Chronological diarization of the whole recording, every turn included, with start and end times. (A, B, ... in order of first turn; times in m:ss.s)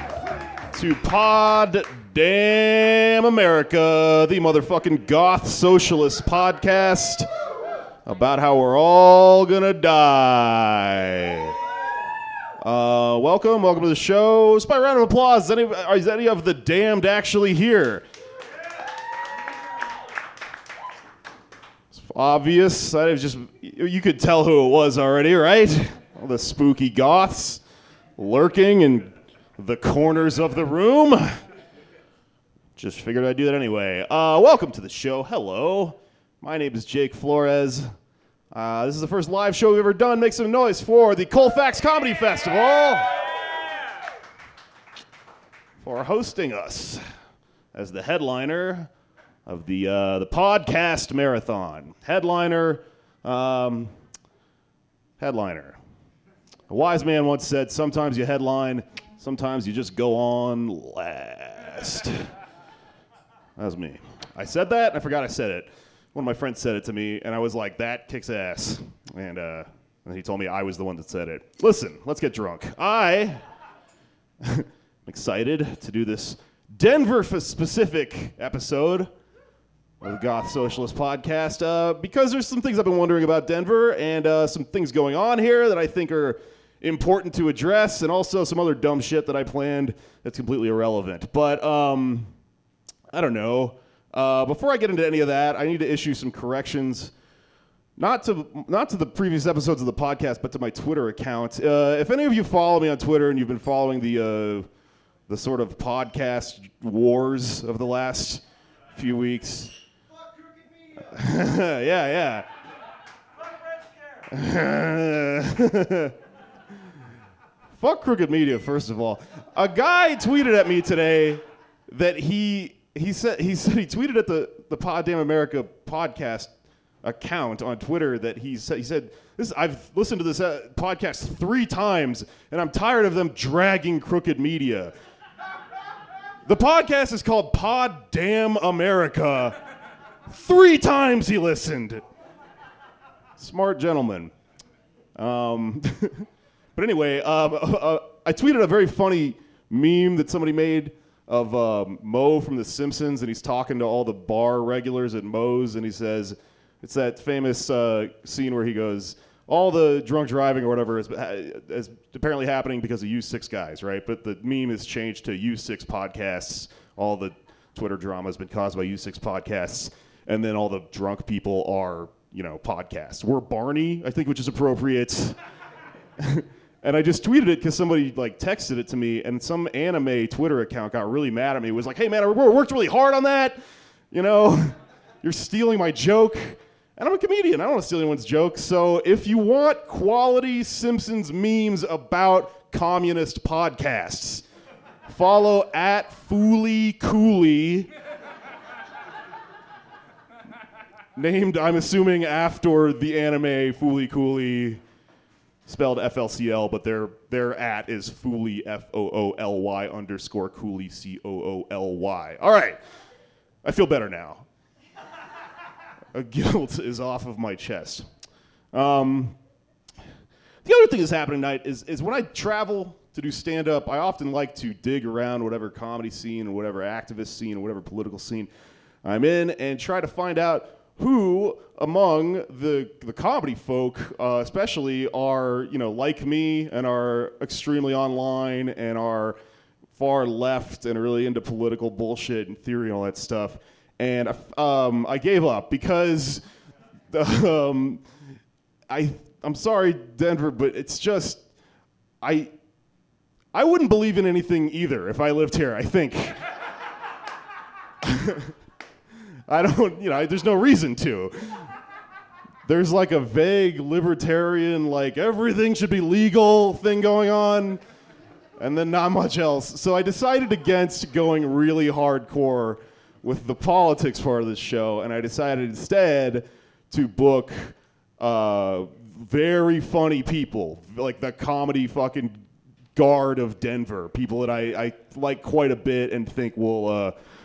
0:00.7-0:07.3 A
0:08.0-0:11.6 A
0:12.6-0:18.0 A
0:21.9-0:27.6 A
0:28.2-0:31.4 A
0:32.8-0:37.9 A
0:38.5-0:43.1 A
0:45.8-0:47.0 A
0:47.7-0:48.9 A
0:49.5-0:53.9 A
0:55.2-0:55.8 A
0:56.7-1:02.3 A
1:03.6-1:13.4 A
1:14.4-1:19.1 A
1:20.0-1:32.3 A
1:33.1-1:37.1 A
1:38.0-1:44.7 A
1:45.3-1:48.4 A
1:49.0-1:49.8 A
1:51.0-1:52.5 A
1:54.3-1:56.2 A
1:57.8-2:06.5 A
2:07.0-2:14.9 A
2:16.5-2:19.6 A
2:20.3-2:22.0 A
2:23.4-2:24.3 A
2:25.2-2:55.4 A
2:56.2-3:03.6 A
3:04.1-3:14.4 A
3:15.1-3:17.9 A
3:21.2-3:24.8 A
3:25.7-3:32.8 A
3:33.6-3:34.5 A
3:36.1-3:38.1 A
3:38.7-3:39.4 A
3:40.6-3:48.5 A
3:49.0-3:59.4 A
4:00.0-4:06.4 A
4:07.1-4:08.0 A
4:08.9-4:11.4 A
4:12.2-4:12.5 A
4:13.5-4:16.4 A
4:18.0-4:18.5 A
4:19.5-4:21.7 A
4:22.6-4:27.8 A
4:28.6-4:42.4 A
4:43.0-4:47.2 A